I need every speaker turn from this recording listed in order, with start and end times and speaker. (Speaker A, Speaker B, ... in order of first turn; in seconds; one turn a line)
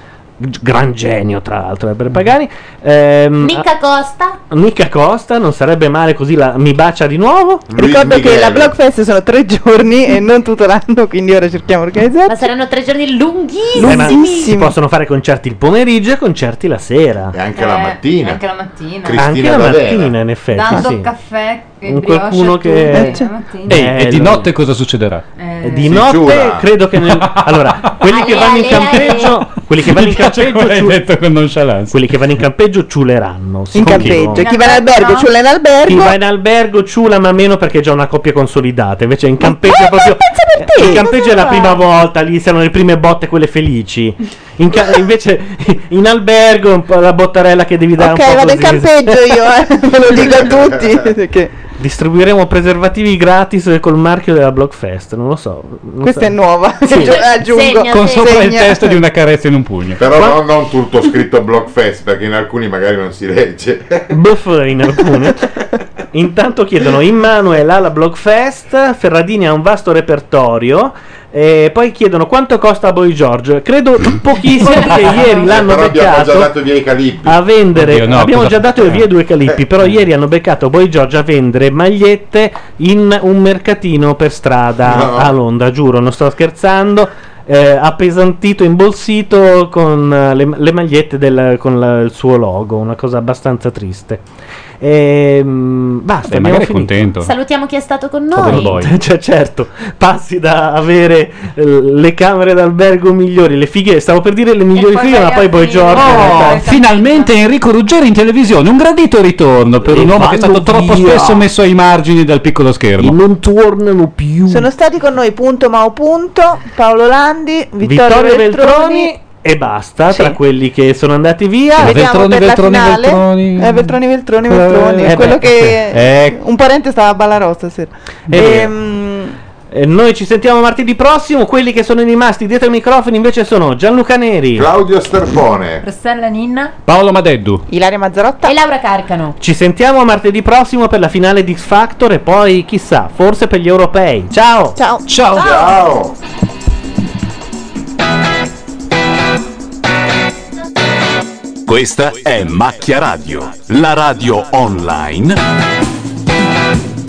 Speaker A: 0.4-3.6
Speaker B: 3.4-4.4
Speaker A: 4.5-7.7
Speaker C: 7.7-8.7
Speaker D: 7.8-12.4
Speaker B: 12.3-14.5
Speaker D: 13.7-14.7
Speaker A: 13.8-17.3
Speaker C: 17.3-18.4
Speaker E: 17.5-19.2
Speaker C: 19.0-20.1
Speaker A: 19.1-21.1
Speaker E: 20.5-23.8
Speaker A: 21.8-24.5
Speaker D: 22.9-23.3
Speaker F: 23.7-25.2
Speaker E: 25.4-26.0
Speaker A: 25.6-31.0
Speaker C: 25.8-26.6
Speaker F: 27.1-27.4
Speaker B: 28.1-29.4
Speaker E: 28.5-29.4
Speaker F: 29.8-32.0
Speaker A: 31.9-34.4
Speaker D: 33.7-36.1
Speaker F: 33.9-34.2
Speaker E: 34.3-35.3
Speaker A: 35.9-49.2
Speaker D: 39.4-41.8
Speaker D: 48.0-51.5
Speaker C: 50.2-50.5
Speaker A: 51.8-56.3
Speaker D: 56.0-59.0
Speaker A: 56.8-57.1
Speaker B: 56.9-58.4
Speaker F: 57.9-60.4
Speaker C: 60.0-64.1
Speaker A: 64.1-65.4
Speaker A: 66.1-76.5
Speaker E: 74.6-75.5
Speaker C: 75.4-77.4
Speaker A: 77.2-94.2
Speaker F: 77.8-79.0
Speaker C: 84.8-85.3
Speaker A: 94.8-97.1
Speaker F: 96.3-97.3
Speaker B: 97.2-98.7
Speaker F: 98.3-98.9
Speaker A: 98.4-106.7
Speaker E: 104.7-107.3
Speaker F: 105.9-113.2
Speaker A: 109.9-111.5
Speaker A: 113.0-114.7
Speaker D: 114.5-119.1
Speaker A: 117.8-122.0
Speaker F: 121.8-126.4
Speaker D: 121.8-129.4
Speaker A: 125.0-125.8
Speaker F: 128.3-128.6
Speaker A: 128.3-128.7
Speaker A: 129.7-134.7
Speaker C: 134.6-135.8
Speaker E: 135.8-136.7
Speaker F: 136.8-137.6
Speaker D: 137.7-138.5
Speaker B: 138.4-139.4
Speaker A: 139.4-144.8
Speaker D: 144.7-145.0
Speaker F: 145.1-145.8
Speaker C: 145.3-146.2
Speaker G: 151.7-155.4